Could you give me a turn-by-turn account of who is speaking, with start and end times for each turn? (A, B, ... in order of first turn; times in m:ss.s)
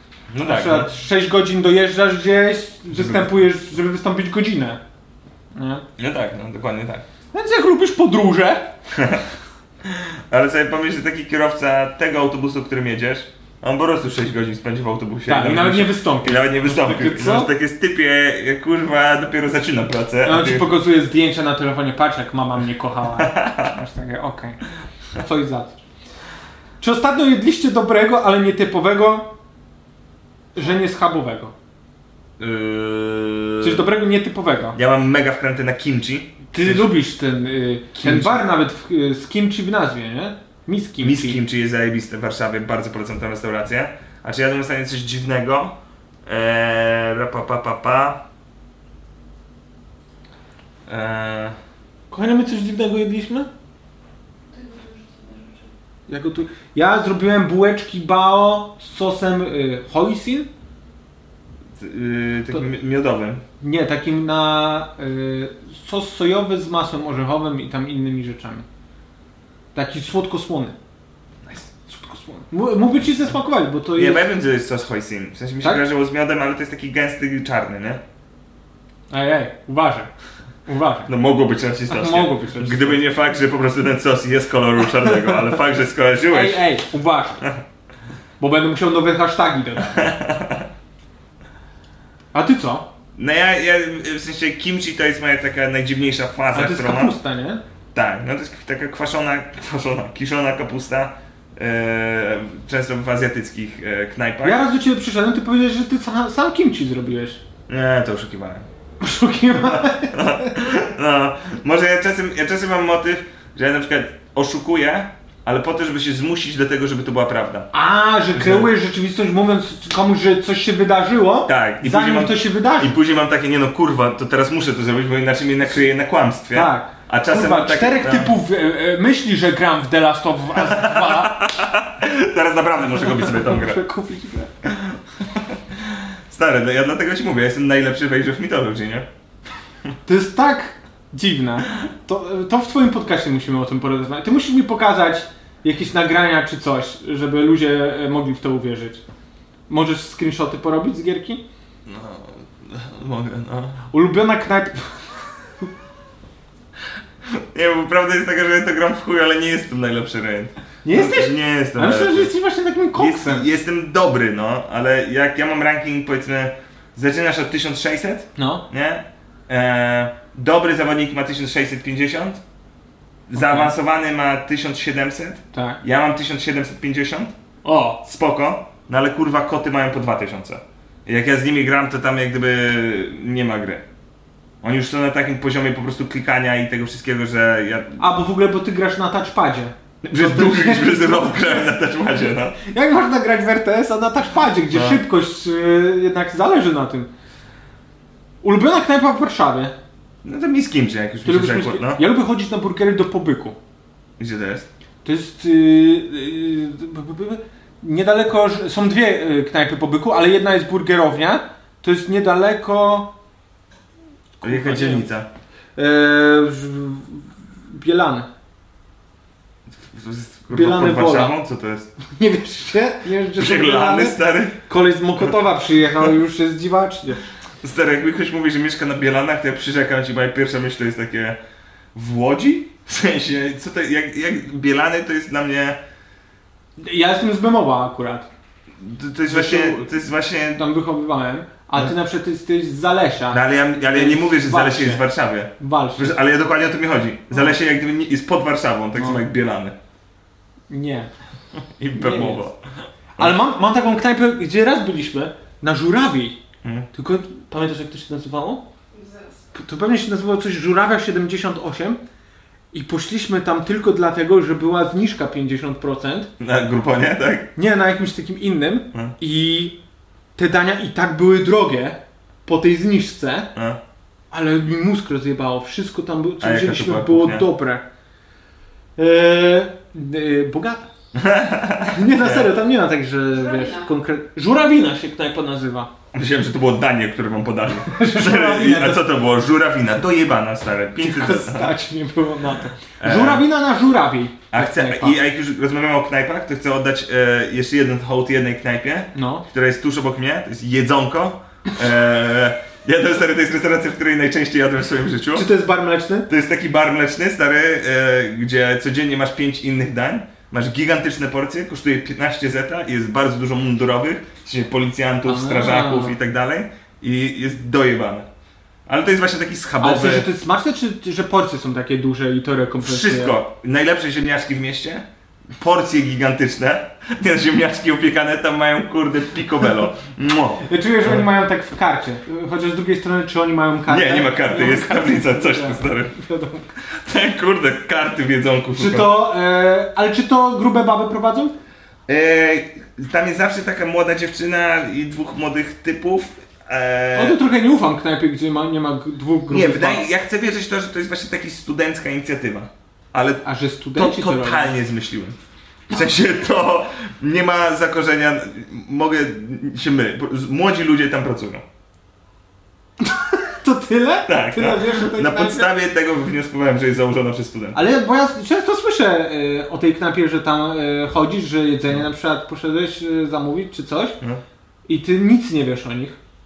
0:00.3-0:00.9 A
0:00.4-0:04.8 B
0:02.9-0:03.3 A
0:05.5-0:05.8 B
0:06.0-0:07.0 A
0:07.3-0:08.7 B
0:08.9-0:09.2 A
0:09.8-0:20.7 A
0:15.3-0:17.5 B
0:20.2-0:24.6 B
0:23.2-0:23.7 A
0:25.2-0:25.8 B
0:26.8-0:29.3 B
0:30.5-0:31.5 B
0:32.4-0:33.9 A
0:33.6-0:34.8 B
0:34.7-0:36.9 A
0:36.5-0:41.4 B
0:37.9-0:38.4 A
0:41.0-0:48.2 A
0:50.9-0:51.6 A
0:52.1-0:53.5 B
0:54.5-0:55.7 C
0:56.1-1:00.5 B
1:01.8-1:03.4 A
1:03.6-1:08.6 B
1:09.7-1:10.7 B
1:11.4-1:11.7 A
1:11.9-1:14.2 B
1:13.9-1:18.0 A
1:19.1-1:20.1 B
1:20.7-1:21.1 B
1:21.1-1:26.6 A
1:21.9-1:23.0 B
1:26.3-1:27.4 B
1:28.4-1:30.1 B
1:29.9-1:30.7 A
1:32.3-1:32.9 B
1:33.2-1:37.2 A
1:36.5-1:37.6 B
1:37.9-1:44.6 A
1:44.4-1:47.4 B
1:47.7-1:48.7 A
1:49.0-1:50.5 B
1:49.7-1:57.7 A
1:57.7-2:02.9 B
1:58.3-1:58.7 A
2:01.4-2:08.3 A
2:06.5-2:11.4 B
2:10.6-2:13.8 A
2:13.0-2:14.5 B
2:14.6-2:19.1 A
2:20.0-2:29.0 B
2:29.7-2:31.4 B
2:31.8-2:33.8 A
2:33.9-2:35.0 B
2:37.3-2:42.3 A
2:40.8-2:43.5 B
2:42.9-2:52.4 A
2:48.4-2:48.6 B
2:53.3-2:57.3 A
2:53.4-2:53.7 B
2:55.5-2:55.8 B
2:57.6-2:58.0 B
2:58.0-3:03.8 A
3:04.6-3:08.0 A
3:08.0-3:11.6 B
3:10.0-3:12.6 A
3:12.6-3:17.1 B
3:14.7-3:15.0 A
3:18.4-3:19.7 B
3:20.2-3:22.0 A
3:21.2-3:23.6 B
3:24.2-3:24.7 A
3:25.0-3:33.1 B
3:34.4-3:35.1 B
3:34.4-3:35.3 A
3:35.8-3:38.3 B
3:39.7-3:41.9 A
3:40.5-3:41.4 B
3:42.1-3:47.2 B
3:43.4-3:44.6 A
3:47.6-3:51.4 A
3:51.9-3:55.8 A
3:56.8-3:58.3 B
3:58.8-4:00.6 A
3:59.3-3:59.9 B
4:00.6-4:05.0 B
4:03.3-4:09.7 A
4:05.6-4:06.2 B
4:09.0-4:09.2 B
4:10.7-4:11.1 B
4:11.8-4:12.6 A
4:11.9-4:12.4 B
4:13.2-4:16.4 B
4:16.6-4:16.9 A
4:16.9-4:18.6 B
4:18.9-4:19.4 C
4:19.5-4:22.0 B
4:22.7-4:26.3 B
4:26.4-4:27.5 A
4:27.6-4:29.8 B
4:30.4-4:33.5 B
4:33.5-4:33.8 A
4:34.3-4:37.8 B
4:36.4-4:37.5 A
4:39.0-4:40.9 B
4:41.1-4:42.5 A
4:41.8-4:45.9 B
4:43.4-4:43.9 C
4:46.1-4:51.7 A
4:47.8-4:49.0 B
4:51.0-4:55.2 B
4:53.0-4:53.4 A
4:54.5-5:05.5 A
4:59.1-4:59.4 B
5:05.3-5:06.3 B
5:06.3-5:18.3 A
5:15.2-5:16.2 B
5:18.9-5:20.3 A
5:19.8-5:23.4 B
5:22.8-5:25.0 A
5:25.6-5:31.2 A
5:30.6-5:36.7 B
5:33.9-5:36.1 A
5:36.9-5:39.1 A
5:38.8-5:41.5 B
5:42.1-5:47.4 A
5:47.1-5:50.0 B
5:49.5-5:55.4 A
5:53.4-5:54.7 B
5:55.9-6:01.6 A
6:03.0-6:05.7 B
6:04.2-6:07.8 A
6:07.7-6:14.2 B
6:14.9-6:16.2 B